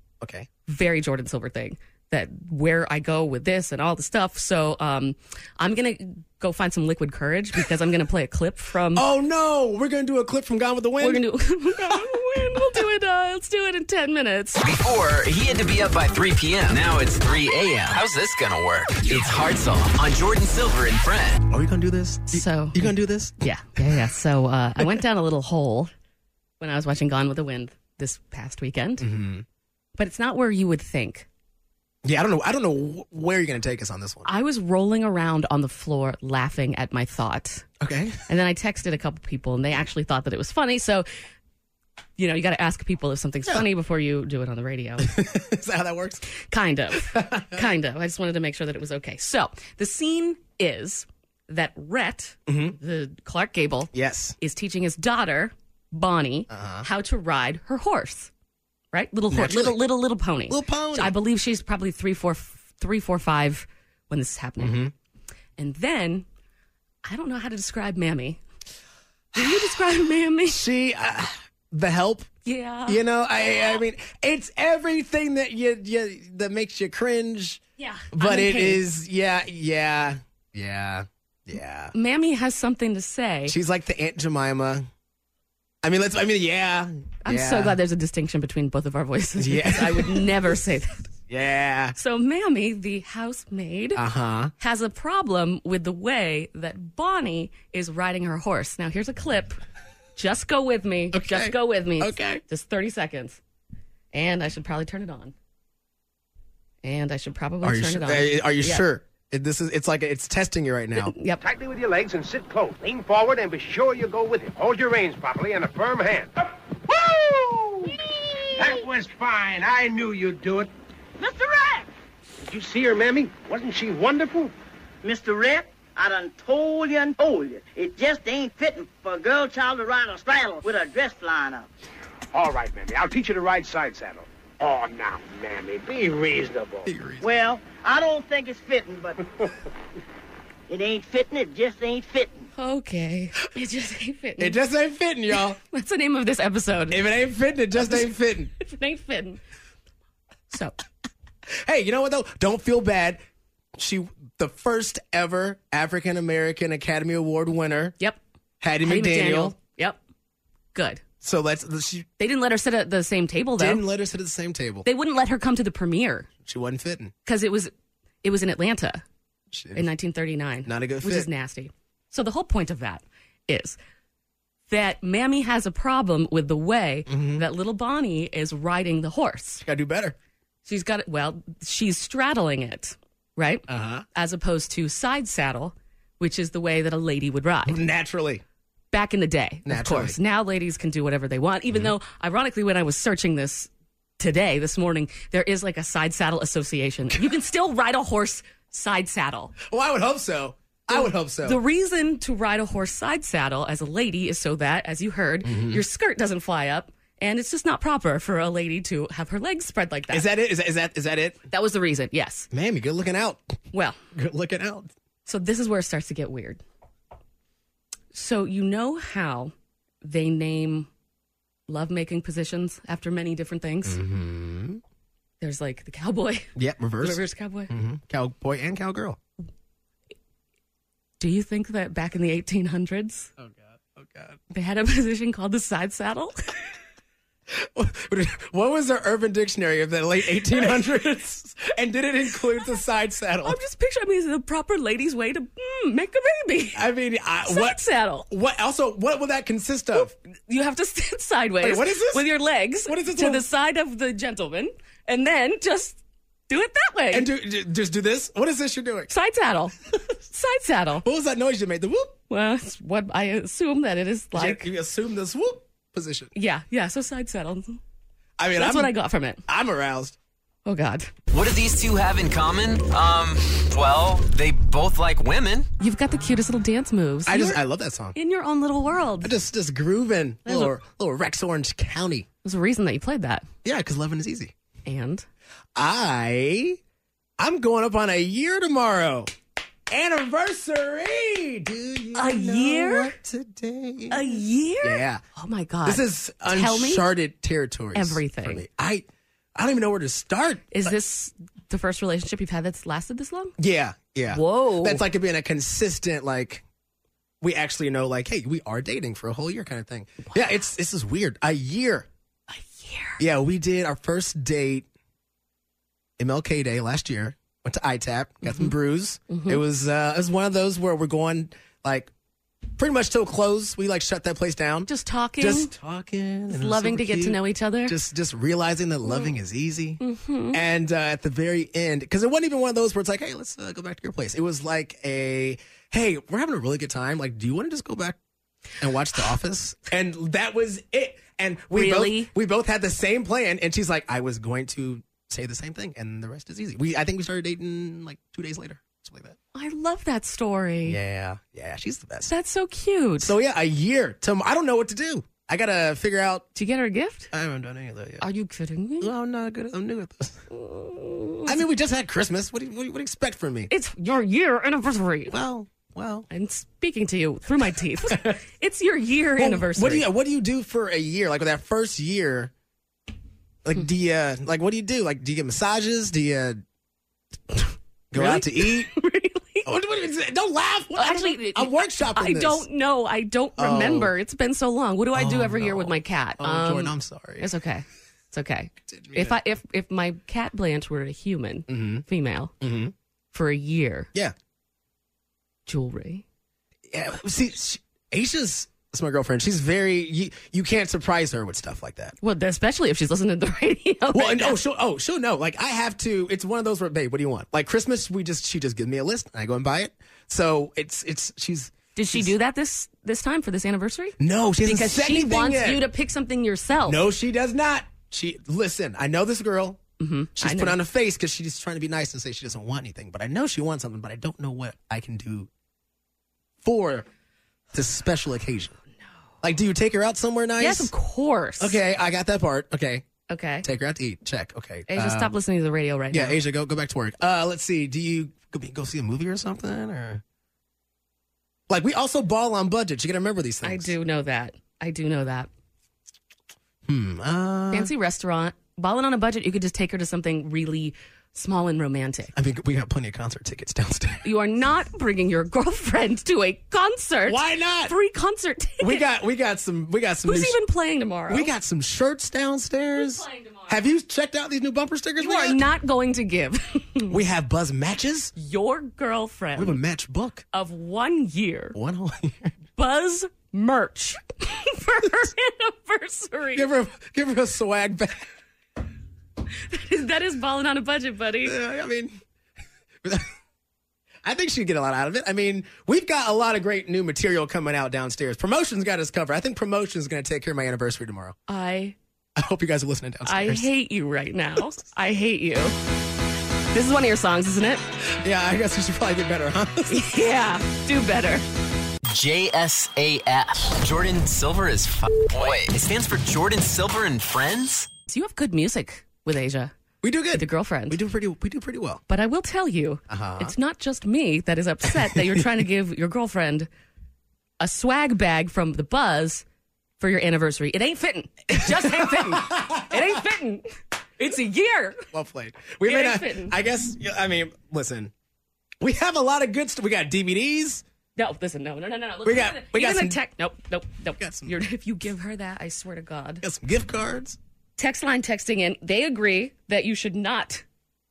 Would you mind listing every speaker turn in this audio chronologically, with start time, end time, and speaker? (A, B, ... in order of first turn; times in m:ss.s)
0:00.2-0:00.5 A
0:00.7-0:09.0 B
0:09.0-0:11.2 A
0:11.0-0:14.6 B
0:11.8-0:12.0 A
0:14.6-0:21.4 C
0:21.5-0:24.0 A
0:22.3-0:25.9 B
0:26.6-0:29.1 B
0:29.0-0:29.4 A
0:30.0-0:31.3 B
0:32.0-0:34.3 A
0:34.2-0:37.7 B
0:37.8-0:38.2 A
0:38.3-0:41.1 B
0:42.2-0:45.2 B
0:45.0-0:46.2 A
0:46.3-0:58.3 B
0:47.0-0:47.7 A
0:52.5-0:52.8 A
0:53.9-0:54.4 A
0:56.5-0:56.9 A
0:58.9-1:04.8 B
0:59.3-0:59.8 A
1:00.5-1:01.2 A
1:04.6-1:04.9 A
1:05.6-1:06.3 B
1:07.0-1:08.4 B
1:09.4-1:10.6 B
1:09.4-1:09.6 A
1:10.5-1:12.3 A
1:12.4-1:13.0 B
1:12.9-1:17.6 A
1:17.8-1:18.8 B
1:18.1-1:21.9 A
1:21.9-1:23.6 B
1:23.5-1:24.9 A
1:25.8-1:27.8 A
1:27.2-1:31.1 B
1:29.4-1:30.4 A
1:31.3-1:32.0 A
1:32.0-1:34.0 B
1:34.0-1:34.5 A
1:34.6-1:39.6 B
1:40.2-1:43.4 B
1:41.1-1:42.4 A
1:44.1-1:45.3 B
1:46.8-1:48.8 B
1:47.6-1:51.1 A
1:51.0-1:51.4 B
1:51.4-1:56.3 D
1:56.9-1:58.0 D
1:58.6-2:00.7 D
1:58.6-1:58.9 E
2:01.2-2:01.9 E
2:02.4-2:04.5 D
2:05.0-2:11.7 E
2:12.3-2:16.9 D
2:16.9-2:17.3 A
2:17.2-2:19.2 E
2:20.7-2:22.5 E
2:22.5-2:24.6 B
2:24.4-2:25.6 A
2:25.6-2:27.0 B
2:26.9-2:28.5 A
2:27.8-2:29.4 B
2:30.5-2:30.8 B
2:31.5-2:33.2 A
2:33.8-2:38.0 A
2:38.6-2:39.6 A
2:38.8-2:40.0 B
2:40.7-2:41.0 B
2:41.2-2:42.1 A
2:42.2-2:43.8 B
2:43.6-2:44.9 A
2:44.8-2:46.3 B
2:46.4-2:47.1 A
2:47.3-2:47.7 B
2:48.2-2:49.0 B
2:49.5-2:49.9 A
2:49.8-2:53.8 B
2:50.6-2:51.3 A
2:54.7-2:59.6 B
2:57.1-2:57.4 A
2:59.6-3:00.2 A
3:00.7-3:07.8 B
3:03.7-3:04.1 A
3:07.7-3:08.4 A
3:08.9-3:19.5 B
3:09.7-3:10.2 A
3:19.6-3:21.6 A
3:20.9-3:30.3 B
3:25.4-3:25.8 A
3:30.1-3:31.4 A
3:31.5-3:32.5 B
3:32.5-3:33.6 A
3:33.7-3:34.0 B
3:34.1-3:34.9 A
3:35.3-3:36.6 B
3:38.1-3:40.9 B
3:41.7-3:44.0 B
3:43.8-3:44.8 A
3:45.4-3:47.7 B
3:46.6-3:49.2 A
3:51.2-3:53.3 B
3:53.4-3:54.4 A
3:54.5-3:56.4 B
3:57.5-4:03.6 A
4:03.4-4:06.9 B
4:06.8-4:10.1 A
4:07.5-4:08.3 B
4:10.0-4:17.3 B
4:11.6-4:12.3 A
4:12.8-4:13.5 A
4:17.1-4:19.1 A
4:19.1-4:19.8 B
4:20.3-4:21.0 B
4:21.0-4:22.2 A
4:22.3-4:24.7 B
4:24.3-4:26.3 A
4:26.3-4:27.8 B
4:28.4-4:28.9 A
4:28.6-4:29.4 B
4:29.5-4:30.2 A
4:30.7-4:31.1 B
4:31.3-4:35.7 C
4:35.8-4:37.6 B
4:37.3-4:38.2 A
4:38.2-4:39.3 B
4:39.2-4:42.3 A
4:40.5-4:40.8 B
4:42.4-4:43.5 B
4:43.6-4:44.5 A
4:44.9-4:45.3 B
4:45.8-4:46.8 A
4:47.4-4:49.3 A
4:49.9-4:55.2 A
4:52.2-4:53.2 B
4:54.1-4:57.1 B
4:55.8-5:00.9 A
4:57.9-4:58.6 B
5:00.7-5:03.5 B
5:03.6-5:06.6 A
5:04.3-5:05.0 B
5:07.4-5:12.1 A
5:12.5-5:13.2 B
5:13.2-5:14.9 A
5:16.2-5:22.1 A
5:18.4-5:18.7 B
5:19.3-5:19.6 B
5:22.8-5:24.9 A
5:24.9-5:25.7 B
5:25.4-5:30.0 A
5:26.5-5:28.0 B
5:29.1-5:29.3 B
5:30.0-5:30.6 B
5:30.5-5:38.2 A
5:38.8-5:49.4 A
5:41.7-5:42.3 B
5:49.5-5:51.0 B
5:50.8-5:52.3 A
5:52.3-5:53.4 B
5:53.2-5:56.5 A
5:56.6-5:57.3 B
5:57.3-5:58.2 A
5:58.2-5:59.1 B
5:59.0-6:00.4 A
6:00.5-6:01.6 B
6:01.5-6:03.7 A
6:03.7-6:05.4 B
6:05.3-6:06.3 A
6:06.3-6:10.1 B
6:08.1-6:08.4 A
6:09.4-6:12.5 A
6:13.6-6:16.6 A
6:18.1-6:18.9 A
6:18.2-6:19.7 B
6:19.6-6:22.7 A
6:21.0-6:32.5 B
6:23.6-6:24.1 A
6:25.1-6:27.5 A
6:28.9-6:29.4 A
6:31.7-6:32.0 A
6:32.6-6:32.9 A
6:33.3-6:34.1 B
6:35.7-6:36.2 B
6:36.9-6:42.2 A
6:42.2-6:44.6 B
6:44.1-6:52.3 A
6:52.0-6:57.0 B
6:54.2-6:55.9 A
6:56.9-6:59.8 A
7:00.0-7:00.8 B
7:00.4-7:05.5 A
7:06.6-7:07.1 A
7:07.7-7:08.8 A
7:09.4-7:10.9 A
7:10.6-7:11.8 B
7:11.6-7:13.1 A
7:13.3-7:13.7 B
7:13.6-7:15.3 A
7:14.9-7:16.4 B
7:16.1-7:20.2 A
7:21.7-7:23.9 A
7:23.6-7:25.5 B
7:26.9-7:27.9 A
7:27.7-7:32.3 B
7:32.3-7:34.3 A
7:34.2-7:39.0 B
7:37.3-7:38.0 A
7:38.8-7:40.6 A
7:40.2-7:41.5 B
7:41.3-7:45.6 A
7:43.0-7:43.8 B
7:45.2-7:47.2 B
7:47.1-7:48.3 A
7:48.4-7:49.8 B
7:49.6-7:50.4 A
7:50.5-7:51.8 B
7:51.8-7:52.6 A
7:52.8-7:56.7 B
7:56.6-7:58.3 A
7:59.7-8:01.6 B
8:01.4-8:02.2 A
8:03.0-8:03.3 A
8:04.2-8:11.4 A
8:11.5-8:12.0 B
8:12.4-8:13.7 A
8:13.2-8:15.8 B
8:16.7-8:17.8 B
8:18.1-8:20.1 A
8:19.9-8:21.4 B
8:22.1-8:27.9 C
8:28.1-8:29.7 B
8:30.0-8:32.0 A
8:30.3-8:31.0 B
8:32.1-8:36.7 B
8:33.1-8:33.6 A
8:34.9-8:35.5 A
8:37.6-8:39.4 B
8:40.0-8:45.1 B
8:41.5-8:43.2 A
8:45.1-8:48.1 A
8:45.8-8:46.6 B
8:48.8-8:50.8 A
8:51.2-8:56.4 B
8:52.2-8:53.2 A
8:54.2-8:54.6 A
8:56.4-8:57.4 A
8:57.8-9:00.6 B